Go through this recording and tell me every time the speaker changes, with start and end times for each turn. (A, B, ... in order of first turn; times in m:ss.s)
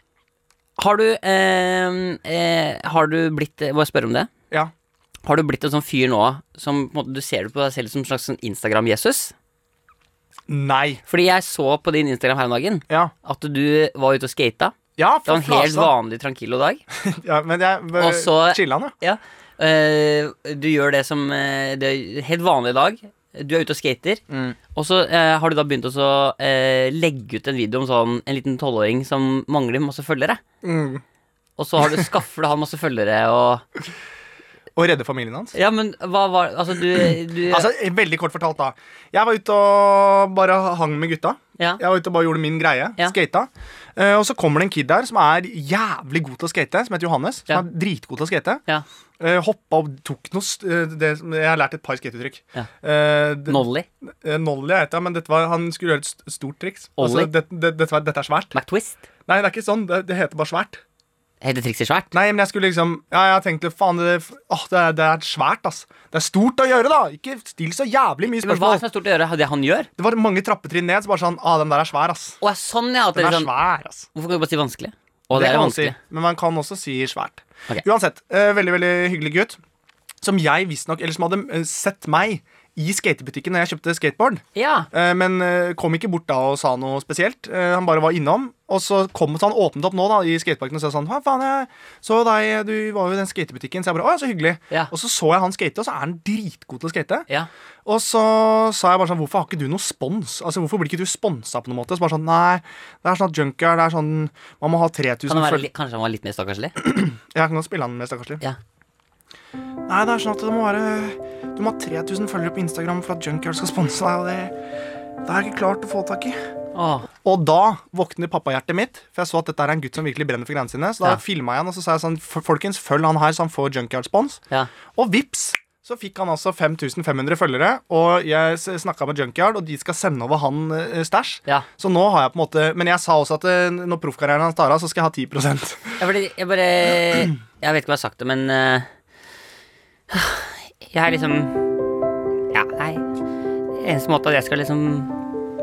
0:00.8-0:04.3 A
0:05.2-0:09.3 A
0:10.5-0:11.0 B
0:11.1-0:14.7 A
0:15.0-0:15.9 B
0:15.2-0:16.8 A
0:17.0-0:18.9 B
0:18.0-0:24.2 A
0:24.3-0:24.6 B
0:24.7-0:30.4 A
0:30.6-0:31.0 B
0:31.6-0:33.6 A
0:34.7-0:35.5 B
0:35.5-0:37.6 A
0:37.5-0:48.6 B
0:49.2-0:58.5 B
0:53.4-0:53.8 A
0:57.0-0:57.3 A
0:58.5-0:59.0 A
0:59.3-1:00.8 B
1:01.4-1:02.1 A
1:02.1-1:08.8 B
1:08.3-1:09.9 A
1:10.0-1:12.4 B
1:12.4-1:13.5 A
1:13.1-1:14.1 B
1:14.1-1:16.0 A
1:15.3-1:19.6 B
1:20.2-1:37.2 B
1:24.5-1:24.9 A
1:37.8-1:45.7 B
1:45.3-1:46.7 A
1:46.8-1:48.4 B
1:49.9-1:54.5 B
1:55.2-1:56.4 B
1:56.7-1:57.1 A
1:57.2-2:04.4 B
2:04.9-2:16.0 B
2:16.0-2:18.9 A
2:20.1-2:21.6 A
2:22.5-2:23.0 A
2:23.7-2:25.1 A